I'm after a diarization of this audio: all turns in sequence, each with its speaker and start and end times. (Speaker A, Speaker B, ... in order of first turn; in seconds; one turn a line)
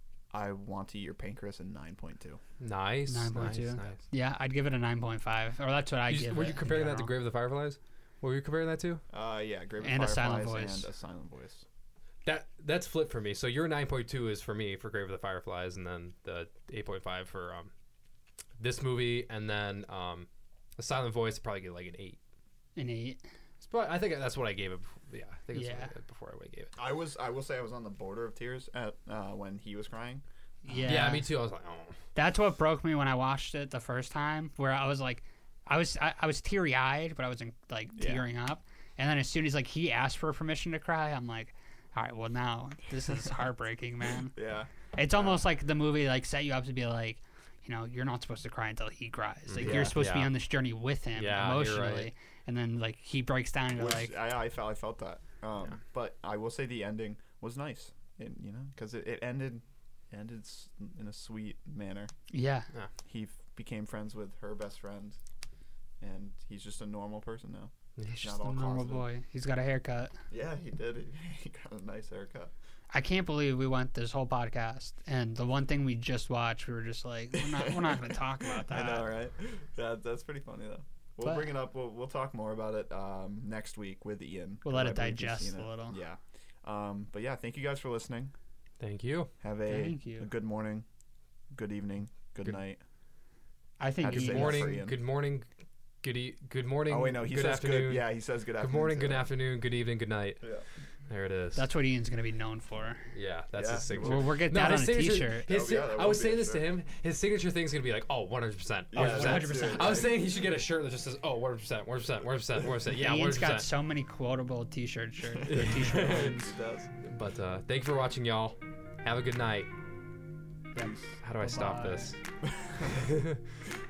Speaker A: 0.3-2.4
Speaker B: 2.6-4.0
Speaker C: 3.1-7.1
Speaker B: 6.1-9.0
Speaker A: 9.1-11.7
Speaker C: 9.8-10.9
Speaker B: 12.2-17.7
Speaker B: 18.6-22.2
Speaker C: 22.8-23.2
Speaker B: 23.6-26.7
Speaker C: 25.5-25.9
Speaker A: 26.8-31.0
Speaker C: 30.6-31.3
Speaker B: 30.8-32.0
Speaker C: 32.1-44.3
Speaker A: 38.0-38.2
Speaker A: 44.3-45.4
Speaker C: 44.9-54.1
Speaker B: 49.5-50.4
Speaker A: 49.6-50.0
Speaker B: 51.2-52.1
Speaker A: 53.8-62.1
Speaker C: 62.3-62.7
Speaker A: 63.0-65.2
Speaker A: 66.0-69.1
Speaker C: 68.1-70.2
Speaker A: 70.3-72.5
Speaker C: 72.9-79.1
Speaker A: 77.3-88.3
Speaker C: 81.2-81.5
Speaker C: 84.6-86.0
Speaker B: 88.8-89.3
Speaker A: 89.4-90.8
Speaker C: 89.7-90.3
Speaker A: 91.5-92.8
Speaker C: 93.8-94.7
Speaker A: 94.0-95.0
Speaker B: 94.1-95.5
Speaker B: 96.0-100.5
Speaker A: 96.9-99.3
Speaker A: 100.4-100.7
Speaker B: 101.1-101.7
Speaker C: 101.5-103.1
Speaker B: 103.1-113.7
Speaker A: 103.5-104.4
Speaker C: 104.0-105.5
Speaker A: 105.5-106.7
Speaker A: 108.9-110.2
Speaker C: 108.9-110.0
Speaker C: 112.9-116.5
Speaker A: 115.3-116.9
Speaker B: 115.5-116.4
Speaker B: 117.0-119.7
Speaker C: 120.7-122.2
Speaker A: 120.8-121.0
Speaker B: 121.2-122.2
Speaker A: 122.4-123.1
Speaker B: 122.8-123.6